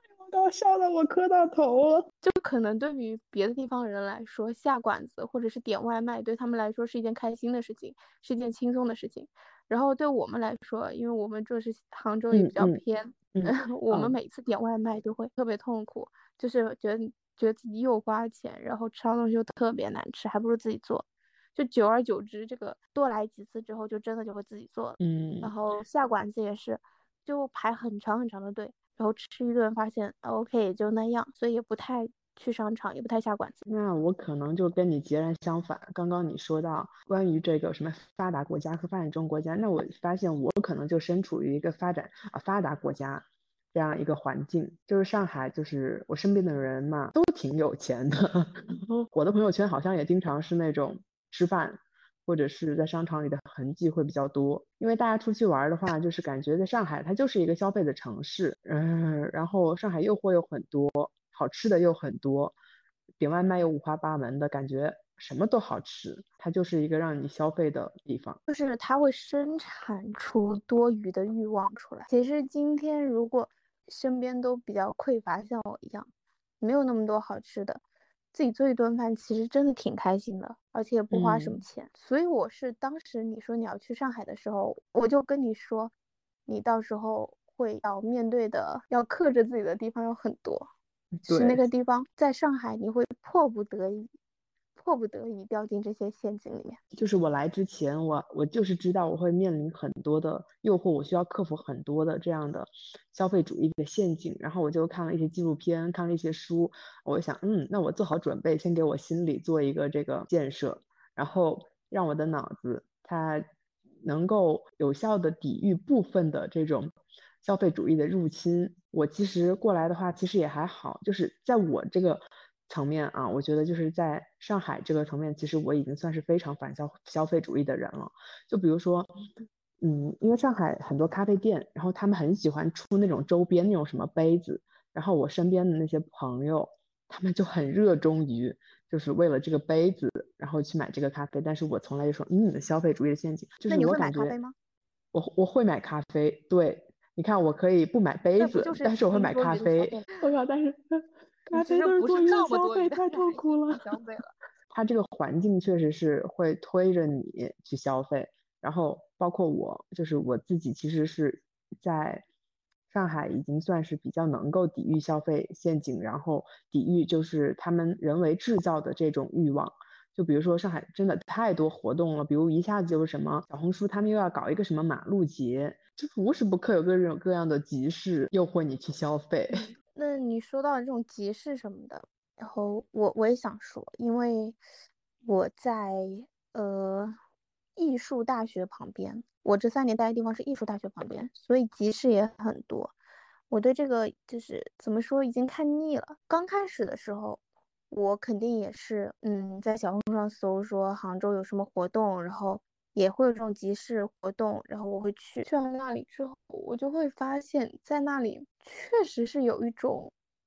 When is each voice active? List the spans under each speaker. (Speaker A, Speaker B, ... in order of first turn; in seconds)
Speaker A: 0.1-2.1, 12.3-12.8, 13.3-14.2, 25.0-25.5, 33.7-62.6, 63.2-68.4, 81.1-81.6, 91.2-91.6, 96.9-113.5, 114.0-116.9, 117.4-129.1, 129.8-144.4, 145.1-153.8, 154.7-162.2, 162.9-179.6
Speaker B: 2.2-33.6, 68.5-76.1, 76.6-77.8, 78.3-85.9, 86.5-90.7, 91.3-94.1, 94.8-96.8, 143.7-144.6, 148.4-150.2, 151.5-154.3, 179.5-184.6, 185.2-187.1, 187.8-192.9, 193.5-197.4, 197.9-210.1